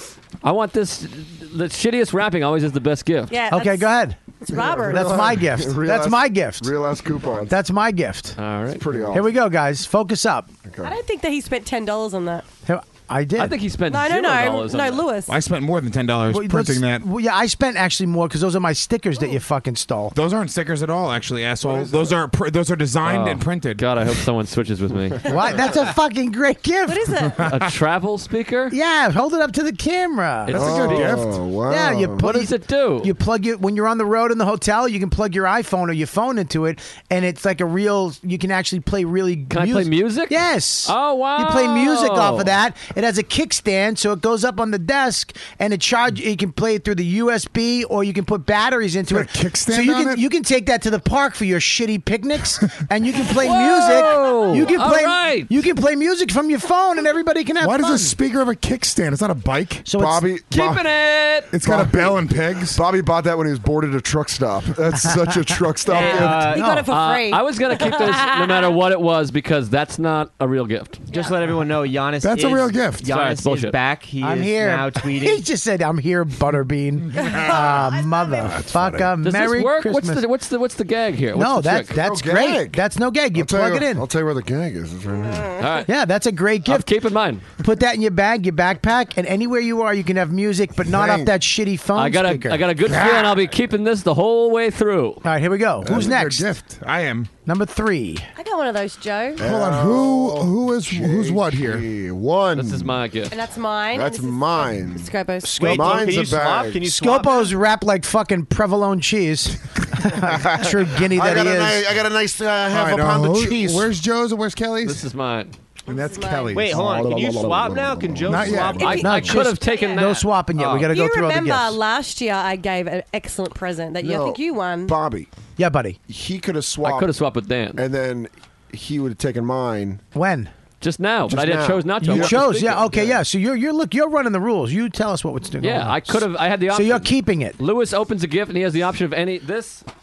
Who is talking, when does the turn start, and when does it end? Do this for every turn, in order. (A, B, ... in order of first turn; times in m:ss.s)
0:00.4-0:03.3 A
0:03.3-0:03.9 B
0:03.5-0:04.2 C
0:04.4-0:05.2 B
0:04.5-0:07.6 D
0:04.9-0:06.7 C
0:07.5-0:08.4 C
0:08.4-0:08.9 A
0:08.8-0:09.3 D
0:09.1-0:10.5 C
0:10.7-0:11.0 D
0:10.8-0:12.5 B
0:12.7-0:13.6 C
0:13.4-0:15.0 A
0:13.9-0:15.4 B
0:15.3-0:17.0 E
0:16.3-0:20.1 C
0:20.1-0:23.8 E
0:21.6-0:22.1 D
0:23.0-0:25.3 A
0:25.2-0:27.2 C
0:26.9-0:27.4 B
0:27.4-0:28.8 A
0:28.7-0:30.6 C
0:30.5-0:31.2 A
0:30.5-0:31.4 E
0:30.6-0:32.2 D
0:31.7-0:58.2 C
0:32.2-0:33.1 A
0:39.5-0:42.5 A
0:49.1-0:50.2 E
0:53.4-0:55.5 A
0:57.6-0:59.9 E
0:59.9-1:00.3 C
0:59.9-1:00.9 D
1:00.5-1:01.5 A
1:01.5-1:02.8 E
1:01.6-1:06.6 D
1:05.9-1:06.6 F
1:06.0-1:08.8 B
1:06.0-1:06.9 C
1:06.8-1:11.1 A
1:11.1-1:11.4 B
1:11.1-1:15.4 F
1:12.2-1:13.1 E
1:13.0-1:13.8 A
1:14.2-1:20.2 C
1:17.2-1:18.6 B
1:18.5-1:19.1 D
1:19.2-1:22.0 A
1:21.4-1:24.0 C
1:21.9-1:22.8 D
1:23.3-1:25.6 D
1:25.3-1:25.5 B
1:25.6-1:25.9 A
1:25.9-1:26.9 C
1:26.7-1:27.5 A
1:27.5-1:32.7 C
1:30.9-1:31.3 D
1:32.0-1:35.2 A
1:32.8-1:33.5 E
1:35.2-1:36.5 C
1:35.8-1:37.3 E
1:37.4-1:38.3 C
1:38.4-1:39.4 B
1:39.4-1:43.0 D
1:39.4-1:41.9 E
1:42.6-1:43.4 A
1:43.3-1:46.0 B
1:43.9-1:46.9 D
1:45.4-1:46.3 C
1:45.6-1:47.5 F
1:46.9-1:51.9 C
1:50.2-1:53.9 D
1:52.7-1:55.0 E
1:54.8-1:55.5 A
1:55.9-1:56.6 B
1:55.9-1:56.9 E
1:56.5-1:59.2 F
1:56.5-1:58.8 D
1:58.3-1:59.2 E
1:58.8-2:00.2 B
1:58.8-2:00.3 A
1:59.0-2:01.8 C
2:00.6-2:00.9 F
2:00.8-2:05.0 B
2:04.0-2:05.3 D
2:05.6-2:06.0 C
2:06.1-2:07.1 D
2:06.8-2:07.8 A
2:07.8-2:10.0 D
2:10.1-2:10.5 C
2:10.8-2:12.9 A
2:11.3-2:13.2 D
2:12.0-2:17.6 C
2:15.6-2:19.8 A